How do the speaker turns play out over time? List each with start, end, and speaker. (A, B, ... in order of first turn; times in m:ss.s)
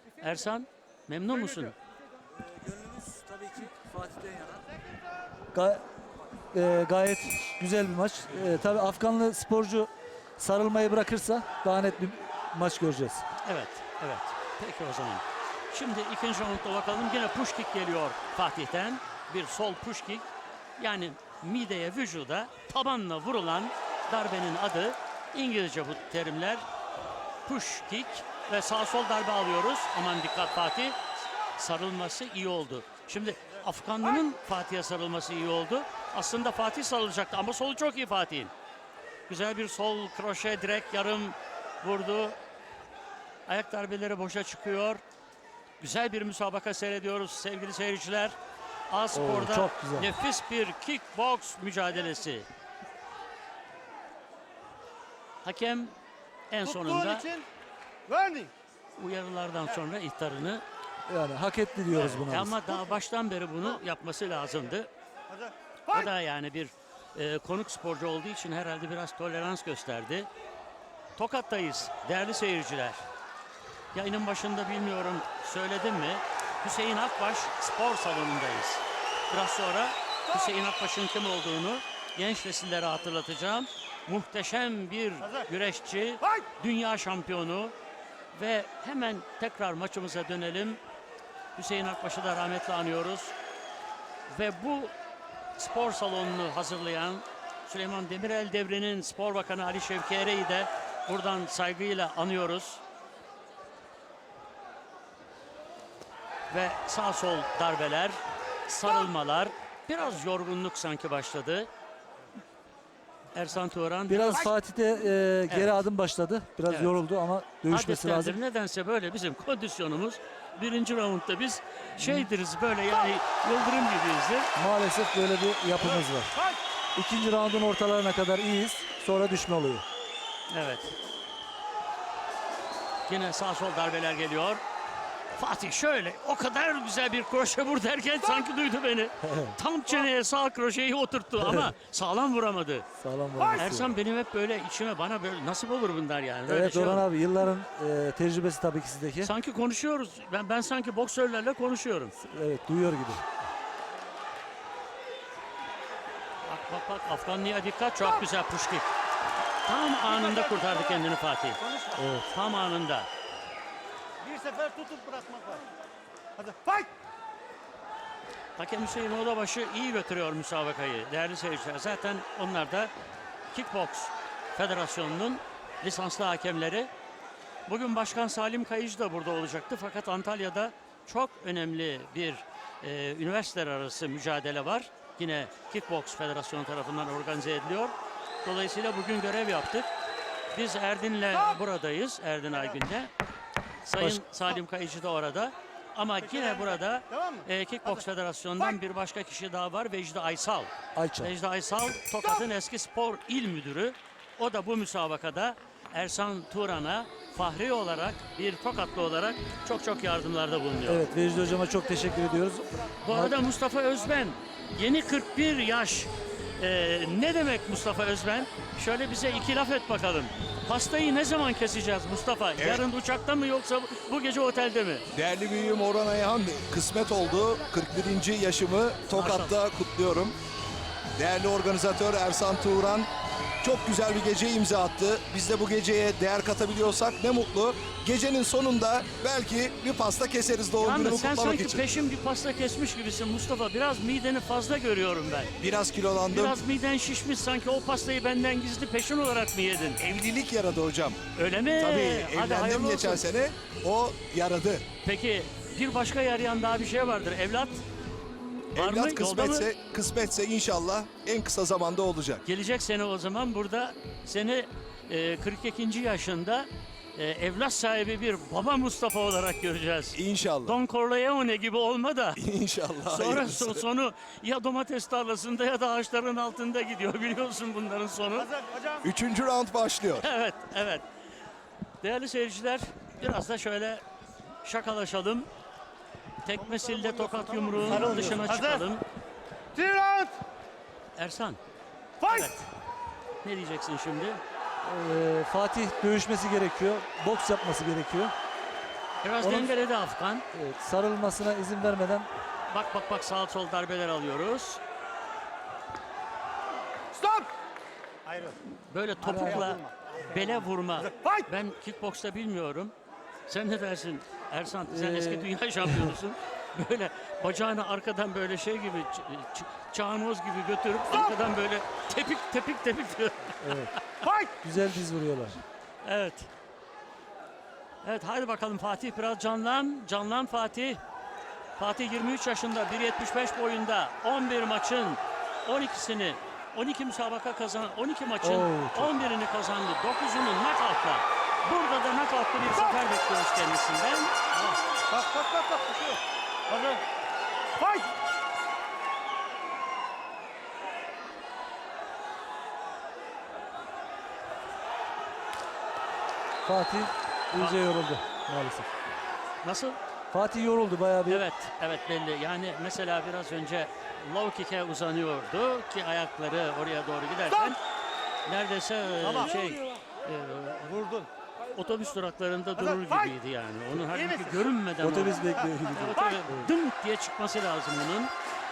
0:00.2-0:01.8 A
0:02.3-0:04.7 B
0:05.5-0:05.8 B
0:06.4-0:13.2 B
0:13.4-0:20.2 A
0:20.8-0:26.6 A
0:27.4-0:31.0 A
0:31.6-0:38.5 A
0:39.3-0:42.4 A
0:43.4-0:45.0 A
0:45.8-0:48.4 A
0:48.9-0:52.5 A
0:49.1-0:50.1 B
0:55.4-0:56.0 A
0:56.5-0:57.3 A
0:56.8-0:57.4 C
0:58.1-0:58.5 C
0:59.0-1:00.6 A
1:01.1-1:02.6 B
1:01.9-1:04.9 A
1:05.9-1:10.3 A
1:11.2-1:13.0 A
1:13.9-1:27.7 A
1:28.3-1:30.8 A
1:31.6-1:33.3 A
1:34.3-1:34.9 A
1:35.6-1:42.8 A
1:46.5-1:51.7 A
1:53.3-1:54.5 A
1:54.1-1:58.4 B
1:55.5-1:55.8 A
1:56.7-1:56.9 A
1:57.7-2:04.5 A
2:04.6-2:06.3 B
2:07.0-2:09.8 B
2:10.5-2:10.9 A
2:13.1-2:14.6 A
2:15.3-2:22.8 A
2:19.2-2:19.6 B
2:21.4-2:21.7 B
2:23.0-2:23.9 B
2:23.5-2:27.0 A
2:26.5-2:29.3 B
2:29.2-2:32.1 A
2:32.2-2:33.2 B
2:36.4-2:38.9 A
2:39.6-2:41.6 A
2:41.6-2:42.0 C
2:42.0-2:42.2 B
2:42.2-2:43.1 A
2:44.2-2:45.6 C
2:46.4-2:46.9 C
2:48.6-2:52.9 A
2:53.5-2:56.9 A
2:57.7-3:09.9 A
3:10.5-3:13.1 A
3:13.8-3:31.0 A
3:17.1-3:17.4 C
3:21.0-3:21.3 B
3:30.8-3:33.3 B
3:33.0-3:45.0 A
3:42.6-3:42.8 D
3:45.1-3:50.4 D
3:49.1-3:49.5 A
3:51.2-3:53.1 D
3:53.6-4:01.8 D
4:00.8-4:05.5 A
4:05.6-4:06.6 D
4:06.3-4:10.0 A
4:10.0-4:11.2 D
4:11.4-4:13.3 A
4:11.8-4:14.8 D
4:15.0-4:17.8 A
4:18.7-4:19.7 A
4:18.7-4:22.4 D
4:22.4-4:32.4 A
4:30.1-4:30.8 D
4:32.4-4:33.8 D
4:33.0-4:38.5 A
4:38.4-4:39.0 C
4:39.0-4:40.3 D
4:40.1-4:41.0 A
4:42.0-4:44.0 A
4:44.6-4:45.5 A
4:46.4-4:49.0 A
4:47.8-4:48.4 B
4:47.9-4:48.8 C
4:49.7-4:50.4 C
4:51.1-4:51.6 A
4:52.2-4:52.4 C
4:52.2-4:52.7 A
4:53.4-4:54.4 A
4:54.8-4:58.3 B
4:59.2-5:00.4 A
4:59.4-4:59.7 B
5:00.5-5:02.3 B
5:02.7-5:04.8 A
5:07.1-5:07.5 C
5:08.2-5:08.6 C
5:08.7-5:12.9 A
5:09.2-5:09.7 B
5:13.5-5:24.0 A
5:14.8-5:16.1 B
5:23.6-5:23.9 B
5:24.5-5:25.6 B
5:26.0-5:26.5 A
5:28.0-5:31.0 A
5:31.8-5:44.8 A
5:38.4-5:39.2 B
5:44.9-5:47.0 C
5:47.8-5:48.1 C
5:56.6-5:58.9 B
5:57.5-5:57.8 A
5:59.6-6:00.0 A
6:00.3-6:01.4 B
6:01.3-6:07.8 A
6:08.4-6:11.1 A
6:11.0-6:11.3 C
6:11.7-6:18.3 A
6:15.0-6:16.7 B